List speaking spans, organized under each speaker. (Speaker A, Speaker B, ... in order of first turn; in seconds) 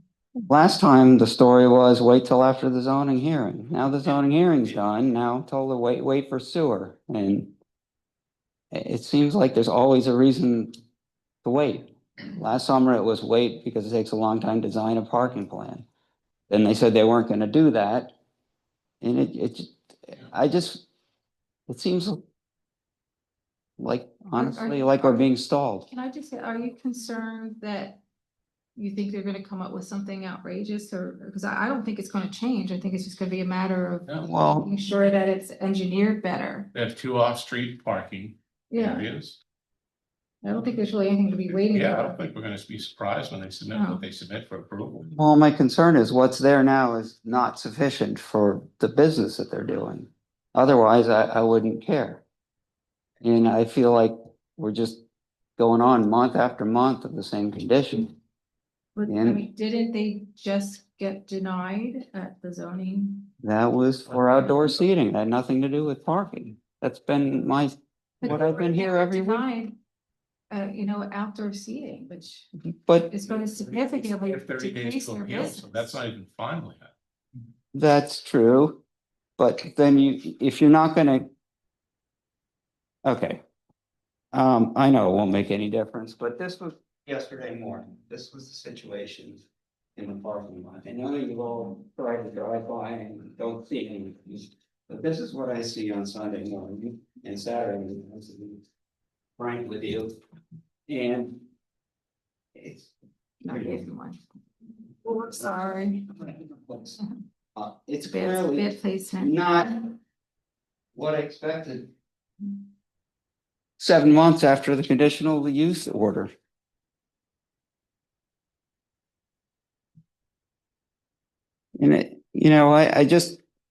Speaker A: 0.5-7.5, 8.7-10.7, 11.4-15.8, 16.5-18.1, 19.0-20.9, 21.7-22.2, 23.8-25.9, 34.2-34.7, 45.0-52.2, 53.2-55.0, 55.6-58.1, 59.1-59.4, 63.4-69.4, 72.8-73.1, 77.7-78.8, 79.4-81.3, 83.0-83.4, 84.3-89.4, 90.0-98.6, 99.4-100.2, 100.9-101.5, 102.5-102.9, 103.5-103.9, 106.2-107.0, 107.5-109.8, 110.9-111.9, 113.8-116.3, 121.8-123.4
Speaker B: 24.4-25.3, 25.9-28.0, 28.8-36.7, 38.7-39.0, 40.4-42.2, 43.7-44.0, 59.0-63.3, 68.2-69.7, 70.5-75.9, 103.4-104.2, 105.0-106.1, 108.1-109.7
Speaker C: 36.7-39.4, 41.5-45.1, 74.1-76.9